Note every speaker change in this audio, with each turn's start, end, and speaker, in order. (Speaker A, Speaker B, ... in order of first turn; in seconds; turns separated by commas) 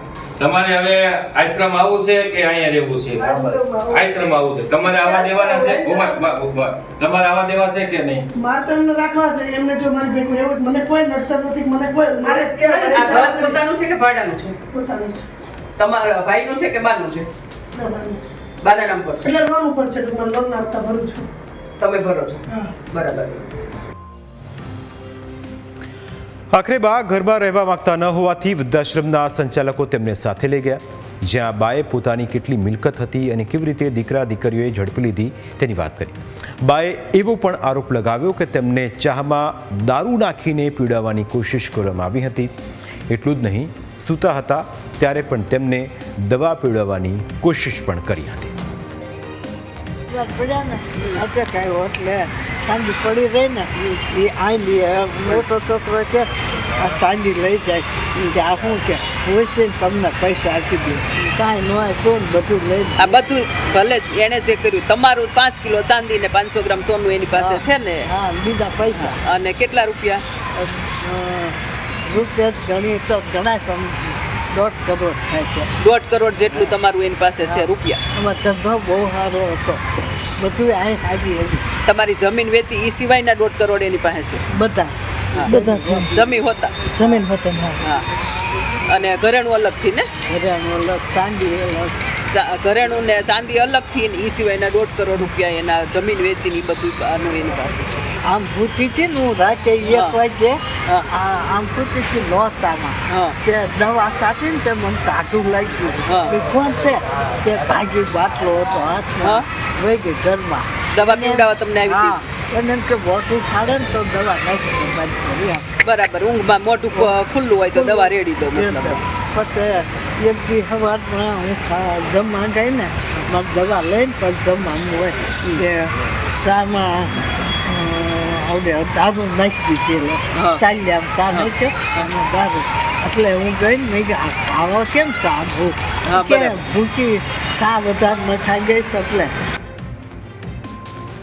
Speaker A: 0.4-8.2, Speaker B: 3.1-4.0, Speaker B: 4.8-6.2, Speaker B: 8.3-13.6, Speaker C: 12.8-14.6, Speaker B: 14.7-15.2, Speaker C: 15.8-17.3, Speaker B: 17.7-18.3, Speaker C: 18.6-19.4, Speaker B: 19.2-21.3, Speaker C: 21.8-23.5, Speaker B: 22.5-22.7, Speaker D: 26.5-42.5, Speaker D: 43.1-48.5, Speaker E: 50.1-63.2, Speaker C: 51.0-51.2, Speaker C: 63.0-68.1, Speaker E: 67.3-69.2, Speaker C: 68.9-70.2, Speaker E: 70.5-75.7, Speaker C: 75.8-78.0, Speaker E: 77.4-79.8, Speaker E: 80.4-81.7, Speaker C: 81.8-84.4, Speaker E: 84.5-86.3, Speaker C: 85.3-85.6, Speaker C: 86.1-87.2, Speaker E: 86.9-87.8, Speaker C: 88.9-90.1, Speaker E: 90.3-91.9, Speaker C: 92.3-98.0, Speaker E: 98.2-115.7, Speaker C: 99.8-100.2, Speaker C: 103.1-103.4, Speaker C: 106.1-106.3, Speaker C: 110.9-112.2, Speaker C: 115.8-119.0, Speaker E: 117.7-139.3, Speaker C: 130.3-130.6, Speaker C: 136.1-136.6